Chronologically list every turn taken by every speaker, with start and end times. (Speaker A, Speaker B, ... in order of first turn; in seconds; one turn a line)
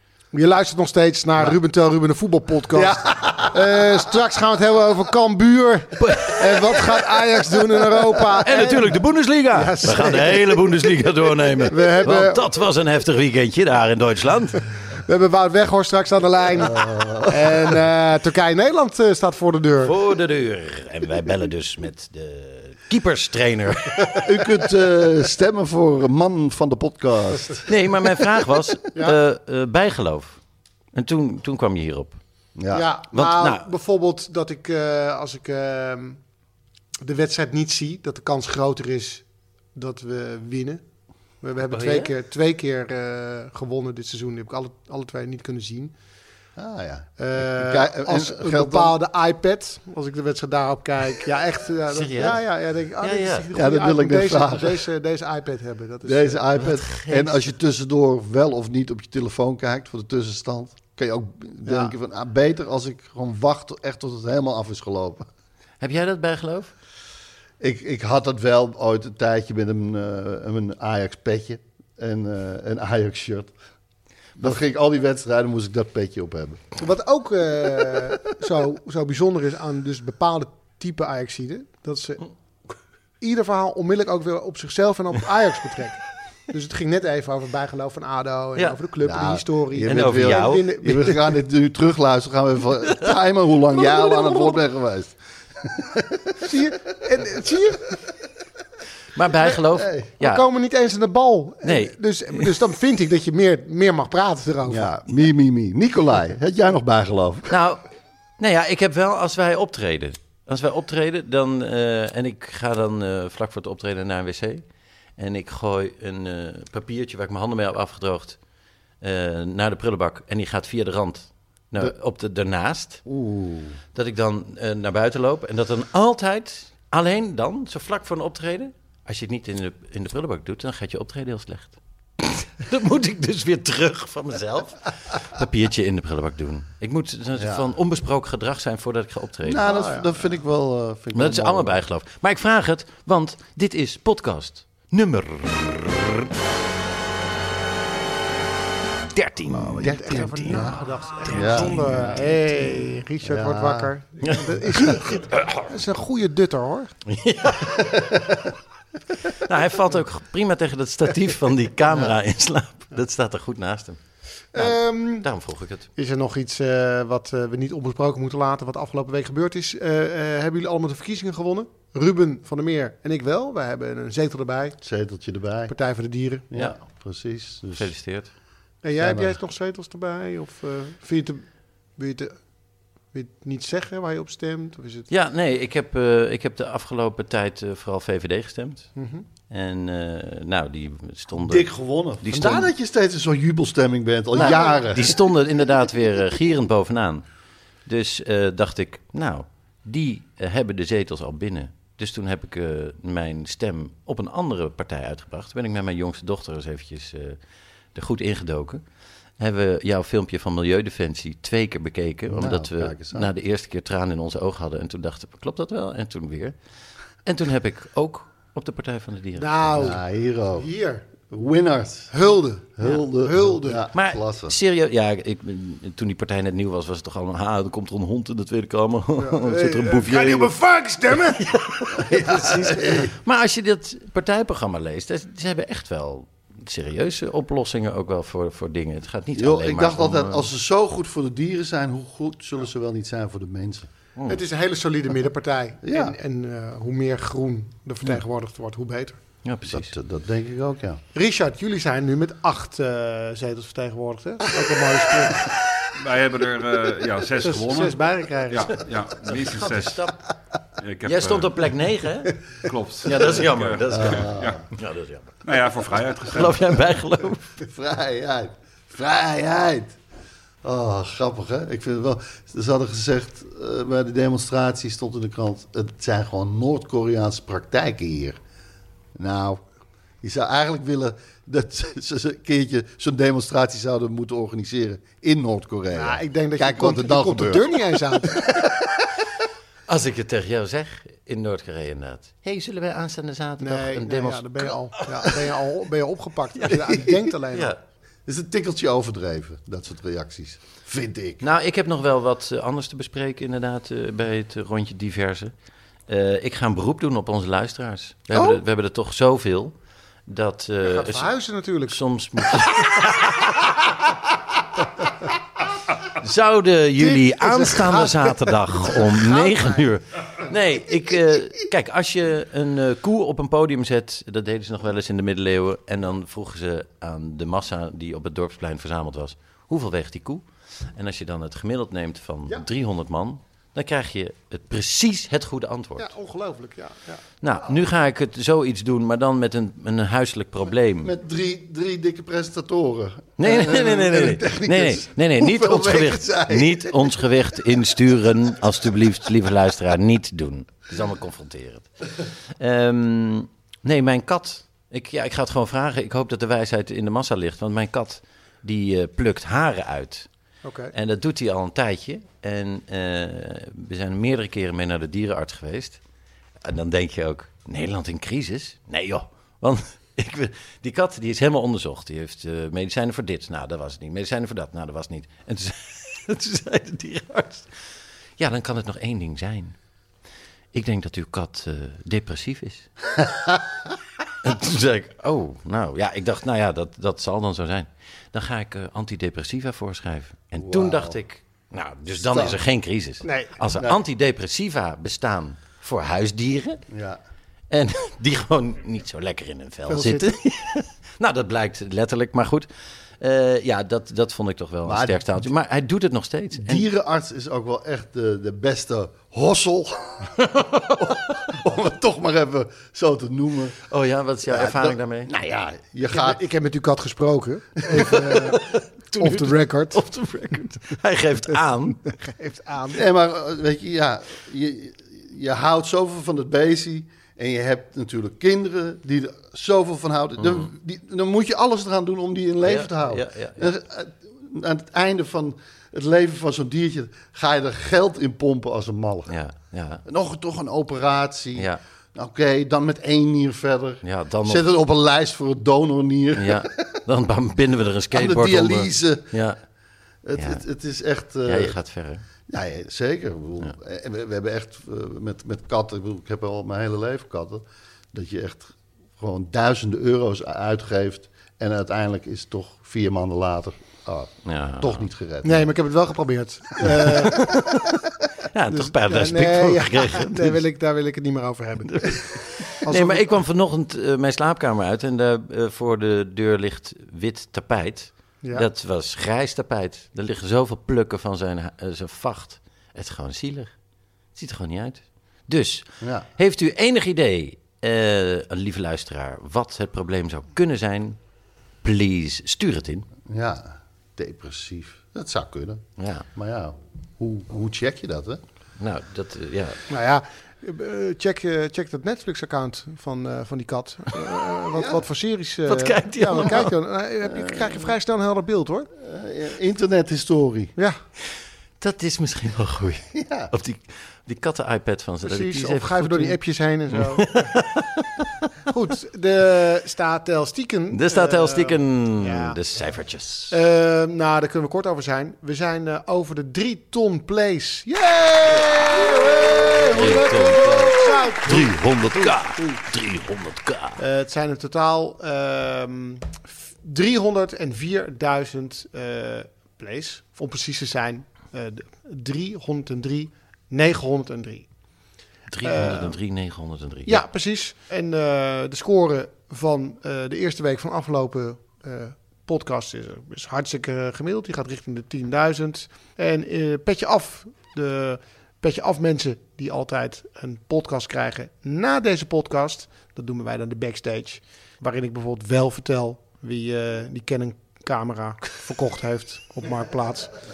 Speaker A: 0.3-9.0
Speaker B: 2.7-3.8
Speaker C: 6.0-6.9
Speaker C: 8.4-14.7
Speaker A: 9.5-10.8
Speaker A: 11.7-12.4
Speaker A: 14.9-19.9
Speaker B: 16.6-17.7
Speaker C: 19.8-24.4
Speaker B: 24.2-27.6
Speaker C: 27.7-30.4
Speaker C: 30.9-32.2
Speaker B: 32.6-32.9
Speaker A: 32.7-36.2
Speaker C: 33.1-33.6
Speaker A: 37.0-40.8
Speaker A: 41.4-45.9
Speaker C: 41.7-42.1
Speaker B: 46.6-49.0
Speaker A: 47.2-56.4
Speaker C: 51.9-52.4
Speaker C: 53.0-53.5
Speaker B: 53.5-54.9
Speaker B: 56.0-65.3
Speaker C: 56.6-57.4
Speaker A: 61.6-61.9
Speaker C: 65.8-66.7
Speaker B: 67.6-73.5
Speaker B: 74.4-76.8
Speaker A: 76.8-82.2
Speaker A: 83.2-91.3
Speaker B: 89.0-96.4
Speaker C: 89.8-90.7
Speaker A: 93.7-94.6
Speaker A: 96.4-98.0
Speaker C: 99.2-100.5
Speaker B: 99.7-100.1
Speaker A: 100.2-104.9
Speaker C: 101.6-102.7
Speaker B: 104.7-107.6
Speaker C: 107.5-107.8
Speaker C: 108.4-114.6
Speaker C: 115.2-118.4
Speaker C: 119.0-123.0
Speaker B: 123.1-123.8
Speaker C: 123.9-139.6
Speaker B: 137.4-137.7
Speaker B: 139.4-141.8
Speaker A: 139.6-140.2
Speaker C: 141.1-146.3
Speaker C: 149.1-152.2
Speaker B: 149.5-152.2
Speaker A: 149.8-156.9
Speaker B: 153.2-153.9
Speaker C: 154.2-155.5
Speaker C: 157.1-158.3
Speaker C: 159.3-164.0
Speaker A: 164.5-165.3
Speaker C: 164.5-165.9
Speaker A: 166.0-174.8
Speaker B: 174.8-175.7
Speaker A: 175.7-176.5
Speaker B: 176.5-177.9
Speaker C: 177.7-178.3
Speaker A: 178.8-181.4
Speaker B: 179.0-179.4
Speaker A: 182.0-182.4
Speaker A: 183.1-185.1
Speaker C: 185.1-188.9
Speaker A: 189.0-189.2
Speaker C: 189.5-191.7
Speaker B: 191.4-195.2
Speaker C: 192.2-192.7
Speaker C: 194.3-197.2
Speaker A: 194.4-194.8
Speaker C: 197.9-207.4
Speaker C: 207.9-208.8
Speaker C: 209.4-216.6
Speaker B: 212.3-213.3
Speaker C: 217.2-220.0
Speaker A: 219.4-220.0
Speaker B: 219.8-220.7
Speaker A: 220.6-221.1
Speaker B: 221.3-222.1
Speaker A: 222.1-223.8
Speaker B: 222.8-224.6
Speaker C: 223.9-230.6
Speaker A: 229.2-231.5
Speaker C: 231.2-240.5
Speaker B: 232.0-233.1
Speaker B: 239.4-243.9
Speaker C: 244.2-244.4
Speaker A: 244.3-249.2
Speaker B: 245.8-246.2
Speaker C: 249.4-249.9
Speaker B: 249.7-251.0
Speaker A: 251.2-255.6
Speaker D: 255.9-260.1
Speaker A: 257.4-258.8
Speaker C: 259.3-260.2
Speaker D: 260.8-261.6
Speaker C: 261.1-262.4
Speaker D: 262.6-264.6
Speaker C: 263.1-265.5
Speaker B: 263.9-264.6
Speaker D: 265.4-266.6
Speaker C: 266.3-267.6
Speaker B: 267.6-270.0
Speaker B: 270.6-278.4
Speaker B: 279.2-279.6
Speaker B: 280.2-288.7
Speaker A: 285.9-288.7
Speaker C: 289.9-295.5
Speaker A: 293.6-297.7
Speaker C: 296.6-297.8
Speaker B: 298.3-301.4
Speaker C: 301.4-305.5
Speaker C: 306.1-309.7
Speaker B: 308.3-308.6
Speaker C: 310.3-311.3
Speaker A: 310.8-312.8
Speaker C: 311.9-313.7
Speaker C: 316.1-336.1
Speaker A: 317.0-319.9
Speaker A: 336.0-337.2
Speaker C: 337.4-341.1
Speaker B: 341.0-347.3
Speaker C: 343.4-360.3
Speaker A: 360.6-360.9
Speaker C: 360.9-366.0
Speaker C: 366.6-377.7
Speaker C: 378.4-379.8
Speaker C: 380.7-382.9
Speaker C: 384.4-396.8
Speaker B: 390.6-391.2
Speaker B: 392.2-392.6
Speaker A: 393.2-393.5
Speaker B: 396.9-397.2
Speaker C: 397.7-402.7
Speaker A: 399.9-400.3
Speaker C: 403.2-406.9
Speaker B: 404.9-405.5
Speaker B: 406.6-410.4
Speaker C: 410.4-411.4
Speaker B: 411.0-413.8
Speaker C: 413.9-415.3
Speaker B: 414.5-416.4
Speaker A: 416.1-420.0
Speaker C: 417.9-422.1
Speaker A: 422.1-423.1
Speaker B: 422.9-439.4
Speaker C: 430.4-430.7
Speaker C: 432.6-433.7
Speaker C: 439.3-440.0
Speaker B: 440.1-447.0
Speaker C: 444.0-444.6
Speaker C: 446.4-449.6
Speaker B: 448.1-449.4
Speaker B: 450.2-451.8
Speaker C: 450.4-450.6
Speaker C: 451.5-452.2
Speaker B: 452.5-465.7
Speaker C: 464.5-465.0
Speaker A: 465.4-467.6
Speaker C: 467.1-467.9
Speaker C: 468.5-470.6
Speaker A: 468.7-473.4
Speaker C: 471.9-483.7
Speaker C: 484.4-491.2
Speaker B: 486.0-486.3
Speaker C: 491.8-493.1
Speaker B: 493.3-495.8
Speaker C: 496.0-496.3
Speaker B: 496.3-498.4
Speaker C: 498.8-499.9
Speaker A: 499.9-508.9
Speaker B: 504.7-505.0
Speaker C: 505.7-506.8
Speaker B: 507.3-507.8
Speaker B: 509.0-510.8
Speaker C: 511.8-516.4
Speaker B: 513.1-513.5
Speaker A: 515.2-517.5
Speaker C: 516.9-518.3
Speaker A: 518.7-522.6
Speaker C: 520.9-523.6
Speaker A: 523.5-532.7
Speaker C: 529.1-534.0
Speaker B: 530.6-530.9
Speaker B: 531.5-531.8
Speaker A: 534.0-544.7
Speaker C: 545.5-547.2
Speaker A: 545.6-546.2
Speaker A: 547.1-570.3